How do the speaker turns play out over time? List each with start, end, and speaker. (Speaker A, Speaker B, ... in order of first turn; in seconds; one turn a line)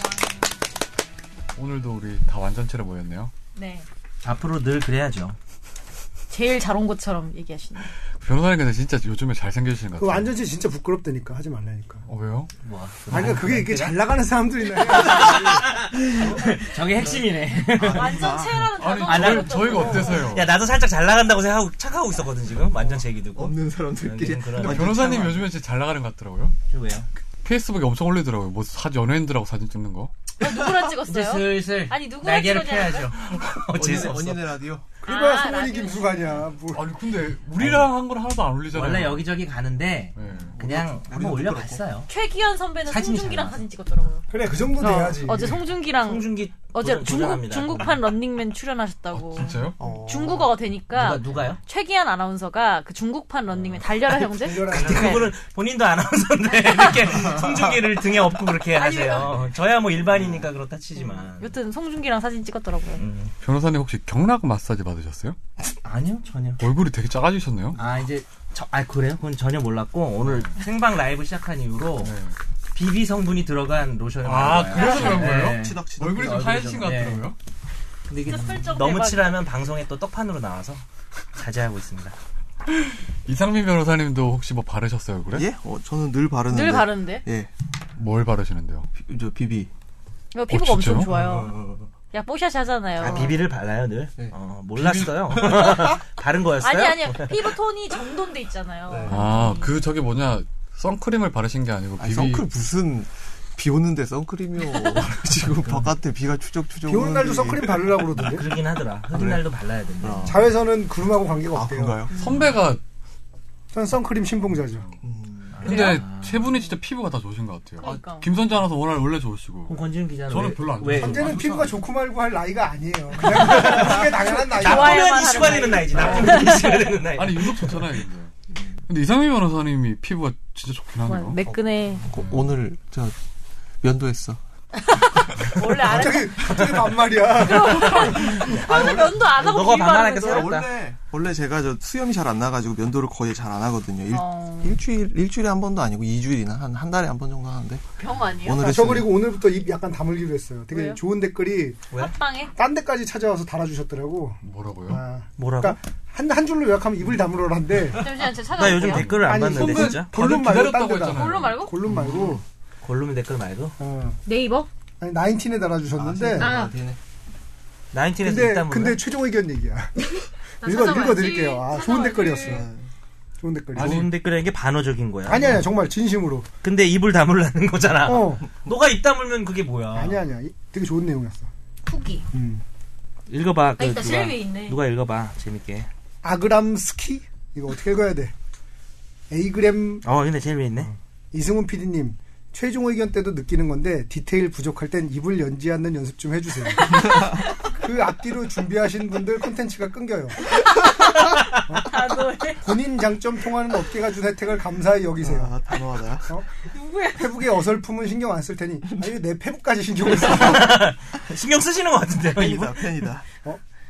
Speaker A: 1.6-3.3
Speaker B: 3.5-3.9
Speaker C: 4.2-5.4
Speaker B: 6.3-7.9
Speaker A: 8.2-10.3
Speaker D: 10.0-12.0
Speaker A: 12.1-12.5
Speaker C: 12.6-14.1
Speaker D: 13.1-15.6
Speaker A: 13.1-13.4
Speaker C: 14.9-18.2
Speaker E: 17.8-18.7
Speaker B: 17.9-20.4
Speaker A: 18.8-20.6
Speaker C: 19.1-25.5
Speaker E: 23.4-25.2
Speaker A: 24.6-26.6
Speaker C: 26.7-27.1
Speaker A: 27.4-30.1
Speaker B: 30.4-33.1
Speaker C: 30.9-34.5
Speaker E: 33.7-34.9
Speaker D: 35.0-36.9
Speaker B: 35.0-36.4
Speaker A: 36.7-39.4
Speaker C: 37.6-37.9
Speaker C: 38.7-42.1
Speaker A: 40.2-40.6
Speaker E: 40.5-41.8
Speaker B: 42.1-55.3
Speaker C: 42.8-43.7
Speaker D: 44.3-45.6
Speaker C: 46.0-48.0
Speaker A: 49.1-49.8
Speaker E: 49.8-50.5
Speaker C: 50.9-51.6
Speaker C: 53.5-61.6
Speaker D: 54.4-55.3
Speaker B: 56.5-56.9
Speaker B: 58.7-59.3
Speaker B: 61.4-63.0
Speaker C: 63.0-63.3
Speaker A: 63.4-65.4
Speaker C: 65.6-66.7
Speaker A: 66.6-67.8
Speaker C: 67.7-72.2
Speaker A: 70.2-70.6
Speaker A: 72.0-72.4
Speaker C: 72.7-77.2
Speaker A: 74.2-77.4
Speaker B: 74.6-75.3
Speaker E: 75.0-76.4
Speaker C: 78.1-80.8
Speaker B: 78.2-79.4
Speaker C: 81.3-82.2
Speaker A: 82.7-85.5
Speaker E: 85.3-87.5
Speaker B: 86.5-87.3
Speaker A: 88.0-88.9
Speaker E: 89.0-89.7
Speaker B: 90.3-93.4
Speaker A: 90.5-91.1
Speaker E: 91.1-91.9
Speaker C: 93.0-97.5
Speaker E: 94.2-95.8
Speaker B: 96.6-99.8
Speaker E: 98.9-99.2
Speaker A: 99.1-102.5
Speaker E: 102.0-108.1
Speaker C: 105.6-105.9
Speaker D: 106.9-108.5
Speaker C: 108.1-110.4
Speaker E: 109.1-109.5
Speaker E: 110.0-110.5
Speaker D: 110.3-112.0
Speaker E: 111.5-112.5
Speaker A: 112.1-112.8
Speaker B: 112.1-112.5
Speaker D: 113.7-114.9
Speaker E: 115.0-115.6
Speaker C: 115.5-116.5
Speaker A: 115.6-121.7
Speaker B: 115.7-116.0
Speaker B: 117.8-118.3
Speaker C: 119.7-121.2
Speaker D: 121.0-126.4
Speaker C: 123.2-128.0
Speaker B: 124.6-126.9
Speaker A: 126.0-126.3
Speaker A: 127.1-128.3
Speaker A: 128.9-131.4
Speaker B: 131.0-132.1
Speaker E: 131.5-133.2
Speaker A: 132.1-132.5
Speaker E: 133.8-134.4
Speaker B: 134.9-136.7
Speaker D: 135.8-139.1
Speaker C: 136.4-137.1
Speaker B: 137.4-140.6
Speaker C: 137.8-138.8
Speaker E: 138.7-139.5
Speaker C: 139.3-140.7
Speaker E: 140.2-147.8
Speaker B: 144.1-144.8
Speaker B: 148.0-148.8
Speaker E: 148.4-149.1
Speaker D: 148.6-151.9
Speaker B: 150.7-151.0
Speaker C: 151.9-152.2
Speaker B: 151.9-152.5
Speaker D: 152.5-158.1
Speaker A: 154.4-155.0
Speaker C: 155.4-155.8
Speaker B: 157.9-159.2
Speaker C: 158.5-160.2
Speaker A: 158.8-161.7
Speaker D: 159.2-162.4
Speaker B: 161.1-161.8
Speaker C: 162.8-163.8
Speaker D: 163.8-164.2
Speaker B: 164.2-164.7
Speaker D: 165.0-166.5
Speaker E: 165.9-167.0
Speaker B: 166.4-166.8
Speaker C: 167.9-169.0
Speaker D: 168.2-172.7
Speaker B: 170.6-172.7
Speaker E: 172.4-172.9
Speaker D: 173.4-174.1
Speaker C: 173.8-175.7
Speaker D: 175.3-176.5
Speaker C: 176.6-180.2
Speaker D: 178.0-178.5
Speaker D: 179.9-181.5
Speaker B: 181.9-182.2
Speaker D: 182.3-182.6
Speaker C: 183.3-185.9
Speaker B: 183.8-184.8
Speaker D: 186.2-188.3
Speaker D: 189.3-190.1
Speaker C: 190.0-190.9
Speaker D: 190.8-200.4
Speaker B: 196.9-197.3
Speaker B: 200.8-202.8
Speaker C: 201.2-201.8
Speaker D: 202.6-205.6
Speaker E: 205.2-206.3
Speaker B: 206.6-207.4
Speaker D: 207.1-210.9
Speaker C: 210.0-213.0
Speaker E: 212.4-213.2